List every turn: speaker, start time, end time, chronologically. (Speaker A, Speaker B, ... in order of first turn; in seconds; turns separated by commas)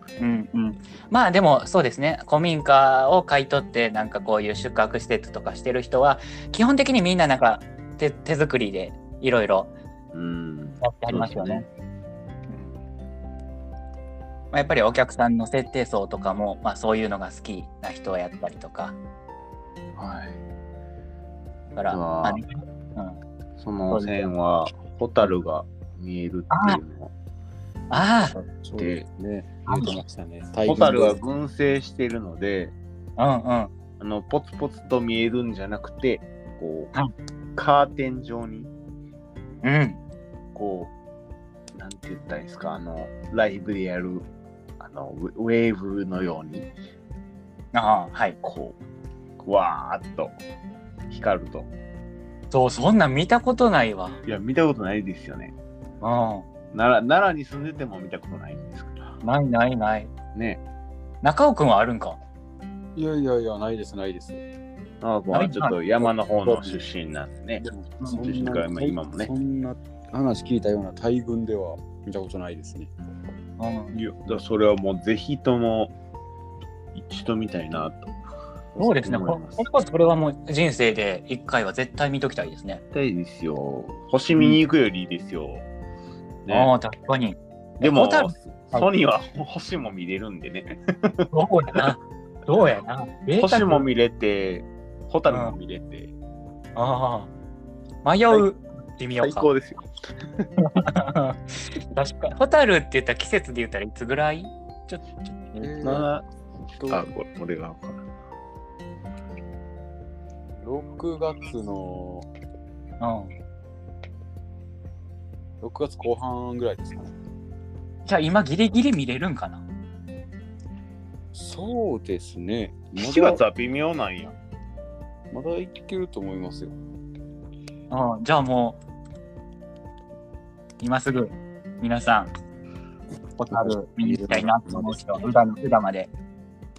Speaker A: 0.2-9.7, Speaker B: 10.1-11.7, Speaker A: 10.8-11.7, Speaker A: 14.5-19.0, Speaker B: 20.0-20.4, Speaker A: 21.7-23.2, Speaker B: 21.9-22.4, Speaker B: 23.6-27.1, Speaker A: 23.9-24.3, Speaker A: 26.5-26.8, Speaker A: 27.9-28.4, Speaker C: 28.4-31.2, Speaker B: 28.7-29.1, Speaker A: 29.7-29.9, Speaker B: 30.6-32.7, Speaker A: 33.2-33.7, Speaker B: 34.0-36.9, Speaker B: 37.6-38.7, Speaker A: 39.6-40.0, Speaker B: 40.5-40.9, Speaker B: 41.8-44.3, Speaker B: 44.8-46.7, Speaker A: 47.7-48.4, Speaker B: 48.4-48.8, Speaker B: 49.4-50.4, Speaker B: 51.1-51.7, Speaker A: 52.5-54.2, Speaker B: 54.3-55.5, Speaker A: 56.0-56.5, Speaker B: 56.7-59.1, Speaker A: 59.2-60.1, Speaker B: 60.4-60.6, Speaker A: 61.2-62.2, Speaker C: 63.0-64.4, Speaker B: 65.0-67.6, Speaker A: 65.3-65.8, Speaker C: 66.5-66.8, Speaker C: 67.6-72.9, Speaker B: 68.2-69.3, Speaker A: 73.6-74.0, Speaker B: 73.9-75.9, Speaker B: 77.0-78.2, Speaker B: 78.7-79.7, Speaker A: 78.8-82.8, Speaker B: 82.9-85.7, Speaker B: 86.5-86.7, Speaker A: 86.5-88.9, Speaker B: 87.8-91.9, Speaker A: 91.3-93.8, Speaker B: 93.4-96.1, Speaker A: 95.3-95.5, Speaker A: 96.8-97.3, Speaker A: 98.0-99.5, Speaker B: 99.2-100.5, Speaker A: 100.6-105.7, Speaker C: 105.6-106.1, Speaker B: 105.8-106.3, Speaker C: 106.8-107.0, Speaker B: 106.9-108.1, Speaker C: 110.6-112.3, Speaker A: 113.0-113.3, Speaker C: 115.6-117.2, Speaker A: 118.0-119.6, Speaker C: 121.3-123.4, Speaker B: 123.0-124.3, Speaker C: 125.3-126.8, Speaker A: 127.9-128.8, Speaker A: 130.8-132.3, Speaker A: 133.4-136.1, Speaker C: 133.5-135.2